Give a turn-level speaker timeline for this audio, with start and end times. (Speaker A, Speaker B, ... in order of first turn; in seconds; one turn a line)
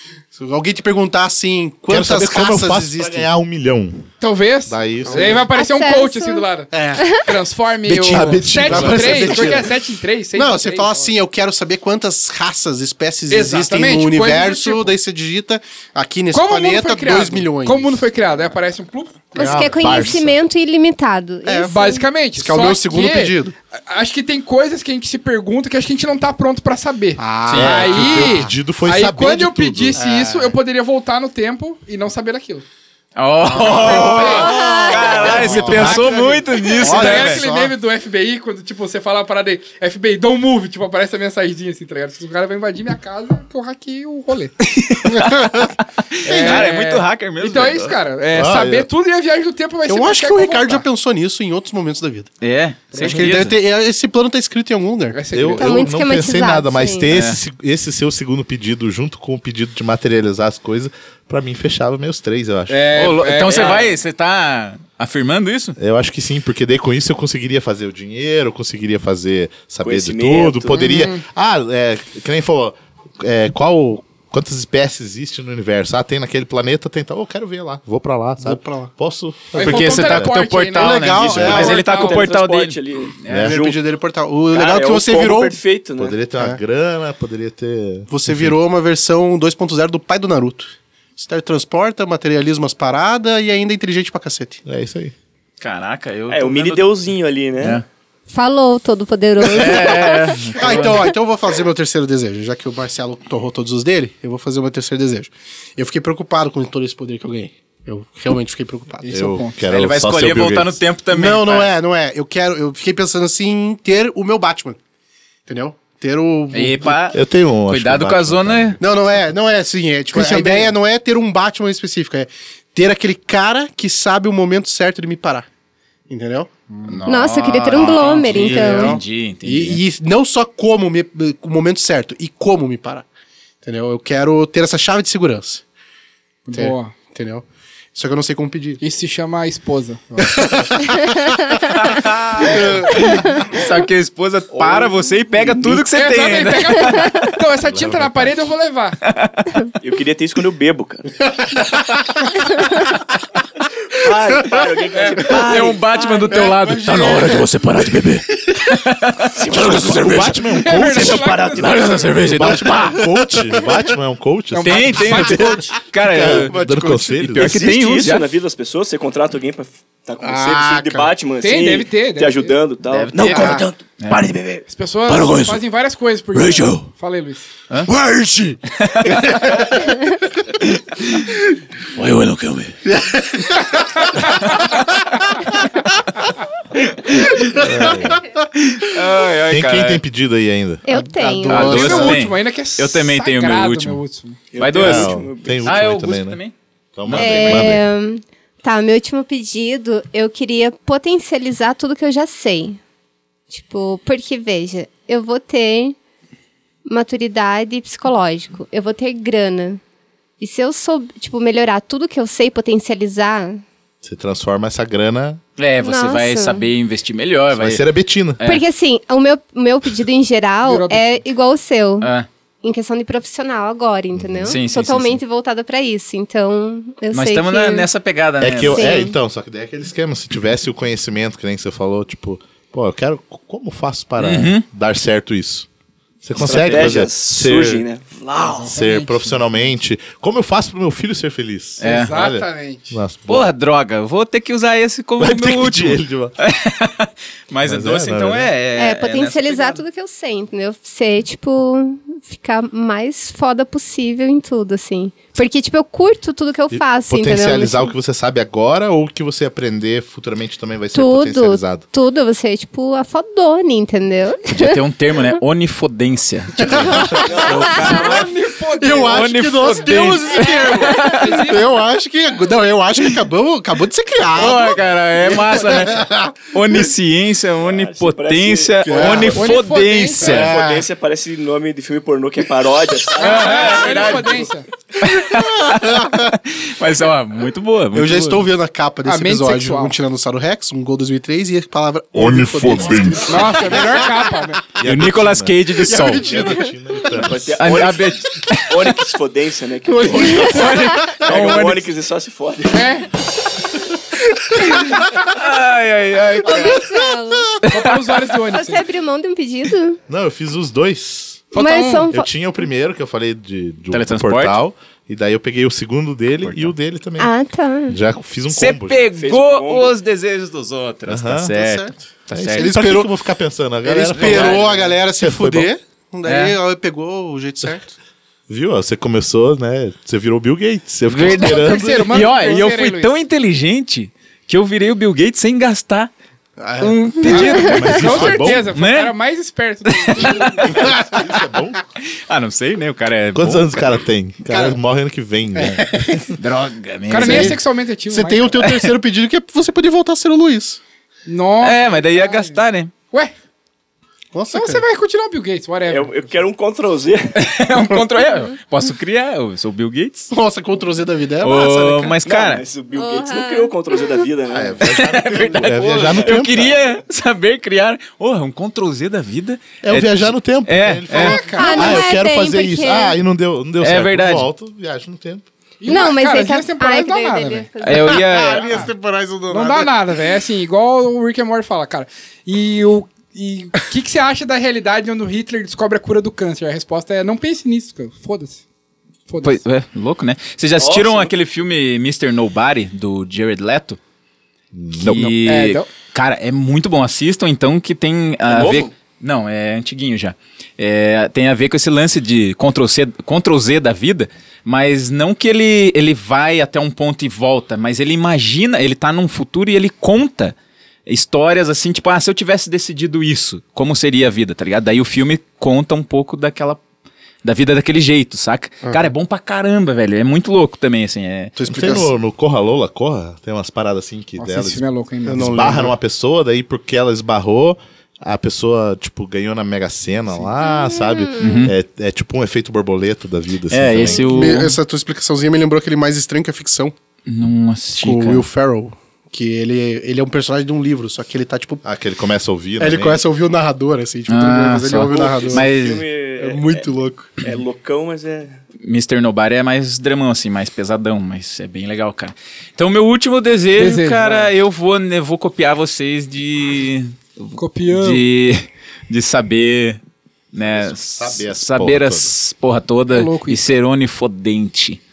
Speaker A: 0.3-3.3
Speaker B: 1.9-4.1
Speaker C: 4.2-11.1
Speaker B: 4.7-5.5
Speaker A: 5.0-5.4
Speaker D: 5.5-6.5
Speaker A: 6.7-7.1
Speaker B: 7.8-9.7
Speaker A: 8.6-9.7
Speaker A: 10.3-18.0
Speaker C: 13.3-14.9
Speaker C: 16.3-20.0
Speaker D: 19.3-22.0
Speaker B: 19.4-20.4
Speaker A: 21.4-21.7
Speaker C: 21.7-23.3
Speaker A: 22.3-23.5
Speaker C: 23.9-32.6
Speaker A: 27.2-28.5
Speaker B: 27.5-30.0
Speaker A: 30.0-30.6
Speaker E: 33.1-37.4
Speaker A: 33.4-37.7
Speaker C: 33.6-44.5
Speaker E: 44.6-45.5
Speaker A: 45.0-45.7
Speaker E: 46.2-47.9
Speaker C: 46.2-50.8
Speaker B: 46.2-46.7
Speaker B: 48.3-48.9
Speaker A: 49.9-52.3
Speaker E: 52.4-53.6
Speaker C: 52.9-53.5
Speaker A: 52.9-55.2
Speaker C: 55.1-55.8
Speaker B: 55.3-63.1
Speaker D: 55.6-57.1
Speaker E: 57.1-57.4
Speaker C: 62.7-63.9
Speaker E: 62.9-65.8
Speaker B: 65.8-80.4
Speaker F: 69.8-70.9
Speaker C: 70.8-71.2
Speaker A: 78.4-78.9
Speaker C: 79.5-82.3
Speaker E: 79.6-83.6
Speaker A: 80.7-81.8
Speaker B: 81.2-81.7
Speaker F: 81.5-83.8
Speaker B: 83.3-83.6
Speaker A: 83.3-85.6
Speaker F: 84.5-86.2
Speaker B: 86.0-88.5
Speaker A: 86.3-86.6
Speaker A: 88.1-94.6
Speaker B: 94.7-95.1
Speaker E: 95.6-96.9
Speaker F: 96.3-97.8
Speaker D: 98.3-101.0
Speaker E: 99.4-101.0
Speaker A: 100.6-109.1
Speaker C: 109.0-109.5
Speaker B: 109.1-110.8
Speaker E: 109.7-111.7
Speaker A: 111.1-114.8
Speaker A: 115.5-117.0
Speaker E: 116.5-118.8
Speaker B: 117.1-118.8
Speaker A: 118.8-125.5
Speaker C: 120.1-120.7
Speaker A: 126.1-126.5
Speaker C: 126.7-127.0
Speaker E: 126.9-129.8
Speaker D: 127.0-129.0
Speaker A: 127.7-133.1
Speaker A: 133.6-135.6
Speaker C: 136.5-136.9
Speaker A: 136.5-138.8
Speaker C: 138.8-140.3
Speaker A: 140.2-141.3
Speaker E: 141.8-147.0
Speaker A: 142.4-142.9
Speaker D: 142.9-143.3
Speaker F: 144.5-145.8
Speaker C: 145.9-149.0
Speaker B: 147.6-148.4
Speaker E: 149.1-149.5
Speaker F: 149.8-151.1
Speaker F: 154.0-156.6
Speaker A: 154.4-154.6
Speaker C: 154.9-155.3
Speaker E: 155.2-157.2
Speaker A: 156.3-157.5
Speaker G: 156.7-158.3
Speaker E: 158.7-159.3
Speaker F: 159.3-160.3
Speaker G: 159.5-163.0
Speaker B: 159.8-161.4
Speaker C: 160.5-162.1
Speaker F: 160.8-162.3
Speaker B: 162.3-167.5
Speaker A: 162.8-163.8
Speaker C: 164.5-165.5
Speaker E: 164.6-166.5
Speaker A: 166.1-167.7
Speaker E: 167.2-168.2
Speaker F: 167.4-174.6
Speaker A: 170.2-171.1
Speaker C: 171.4-172.5
Speaker E: 172.9-174.2
Speaker G: 173.2-174.4
Speaker A: 173.3-173.6
Speaker C: 174.7-177.5
Speaker G: 175.1-175.6
Speaker G: 176.3-176.9
Speaker G: 177.9-178.6
Speaker E: 178.8-179.5
Speaker G: 181.9-182.8
Speaker A: 182.9-183.8
Speaker E: 187.1-187.4
Speaker A: 187.1-188.4
Speaker B: 187.5-188.2
Speaker E: 188.6-190.0
Speaker B: 189.5-190.8
Speaker D: 190.8-192.0
Speaker A: 190.9-192.2
Speaker E: 191.5-194.0
Speaker C: 191.6-194.4
Speaker F: 194.5-195.8
Speaker E: 194.6-196.5
Speaker B: 194.7-196.4
Speaker B: 196.9-197.8
Speaker E: 197.0-197.8
Speaker D: 197.1-202.8
Speaker D: 203.5-205.9
Speaker D: 206.8-209.8
Speaker D: 210.4-213.6
Speaker B: 214.0-215.4
Speaker E: 215.6-217.8
Speaker D: 215.8-216.6
Speaker B: 217.6-218.4
Speaker D: 218.4-222.1
Speaker C: 220.6-221.2
Speaker E: 222.0-222.3
Speaker D: 222.6-227.9
Speaker B: 224.1-224.6
Speaker E: 224.4-225.2
Speaker E: 227.1-229.1
Speaker B: 228.4-235.7
Speaker D: 228.7-229.2
Speaker E: 234.2-234.6
Speaker B: 236.2-237.8
Speaker E: 236.3-237.1
Speaker F: 236.4-238.7
Speaker C: 238.4-239.6
Speaker B: 238.7-243.5
Speaker E: 241.8-242.2
Speaker C: 241.8-242.9
Speaker E: 243.3-249.8
Speaker B: 245.2-246.3
Speaker B: 247.6-248.5
Speaker D: 248.8-257.9
Speaker B: 256.7-261.9
Speaker D: 260.9-264.8
Speaker E: 264.6-268.3
Speaker D: 266.7-267.2
Speaker A: 266.7-268.2
Speaker F: 267.2-268.0
Speaker C: 267.6-269.3
Speaker A: 268.8-276.8
Speaker E: 269.0-271.5
Speaker C: 271.0-271.8
Speaker E: 274.3-280.6
Speaker F: 277.6-279.5
Speaker A: 278.8-279.4
Speaker C: 279.3-280.5
Speaker F: 280.2-284.5
Speaker A: 280.2-280.9
Speaker E: 283.2-288.5
Speaker C: 283.2-284.7
Speaker A: 285.0-286.3
Speaker A: 287.9-294.4
Speaker C: 289.0-289.9
Speaker B: 292.1-293.7
Speaker C: 293.2-294.6
Speaker B: 294.8-297.6
Speaker E: 294.8-296.4
Speaker A: 295.9-297.0
Speaker F: 297.1-302.9
Speaker E: 297.6-299.1
Speaker A: 299.9-301.6
Speaker E: 300.1-301.9
Speaker D: 300.6-301.1
Speaker C: 302.7-303.1
Speaker A: 304.2-304.9
Speaker E: 305.3-306.9
Speaker D: 306.4-307.6
Speaker C: 307.7-308.8
Speaker D: 308.5-310.0
Speaker B: 310.1-317.3
Speaker C: 311.5-312.1
Speaker D: 311.5-312.3
Speaker E: 313.9-314.6
Speaker E: 316.4-316.7
Speaker D: 317.2-318.0
Speaker B: 317.9-319.1
Speaker E: 318.5-322.8
Speaker F: 319.1-319.9
Speaker B: 321.1-321.5
Speaker A: 321.5-323.2
Speaker B: 322.3-325.7
Speaker A: 323.8-327.9
Speaker E: 324.1-324.9
Speaker E: 326.2-326.6
Speaker B: 328.5-332.6
Speaker E: 331.1-336.1
Speaker C: 331.3-333.1
Speaker A: 336.6-337.3
Speaker E: 336.8-339.1
Speaker C: 337.2-340.7
Speaker B: 337.6-338.7
Speaker E: 339.9-340.9
Speaker B: 340.5-341.8
Speaker E: 342.3-343.9
Speaker B: 343.3-346.3
Speaker A: 344.5-344.8
Speaker A: 345.5-346.4
Speaker E: 346.4-347.6
Speaker C: 347.1-348.5
Speaker A: 347.2-350.8
Speaker C: 351.3-352.6
Speaker E: 351.6-352.9
Speaker A: 354.3-354.8
Speaker C: 354.5-356.1
Speaker F: 355.9-357.4
Speaker E: 357.3-360.3
Speaker A: 360.3-362.2
Speaker E: 361.4-362.6
Speaker F: 362.2-366.6
Speaker D: 362.9-364.1
Speaker B: 364.5-366.7
Speaker E: 364.8-371.7
Speaker B: 369.8-375.5
Speaker C: 371.1-372.0
Speaker D: 371.5-373.1
Speaker E: 373.8-374.5
Speaker C: 375.8-377.7
Speaker D: 375.9-378.4
Speaker E: 377.8-378.8
Speaker A: 378.1-379.9
Speaker C: 378.5-378.9
Speaker C: 379.5-388.6
Speaker C: 389.3-389.6
Speaker E: 389.4-394.0
Speaker F: 390.8-391.3
Speaker B: 394.7-395.4
Speaker E: 395.0-410.5
Speaker C: 395.4-395.9
Speaker F: 398.4-398.9
Speaker E: 411.1-416.8
Speaker E: 417.4-421.5
Speaker A: 418.8-419.1
Speaker A: 421.6-422.1
Speaker B: 421.7-424.8
Speaker C: 424.4-425.8
Speaker A: 425.2-425.9
Speaker B: 425.3-434.5
Speaker D: 430.6-431.7
Speaker E: 431.4-431.7
Speaker E: 433.7-434.8
Speaker A: 434.2-436.9
Speaker E: 437.3-438.5
Speaker A: 438.0-441.8
Speaker B: 441.8-443.2
Speaker A: 442.8-445.7
Speaker E: 444.3-446.0
Speaker F: 445.1-446.9
Speaker A: 446.4-447.4
Speaker F: 447.4-448.6
Speaker E: 448.8-460.0
Speaker C: 453.8-454.5
Speaker C: 457.6-458.2
Speaker E: 460.5-465.0
Speaker B: 460.7-462.3
Speaker C: 463.1-463.6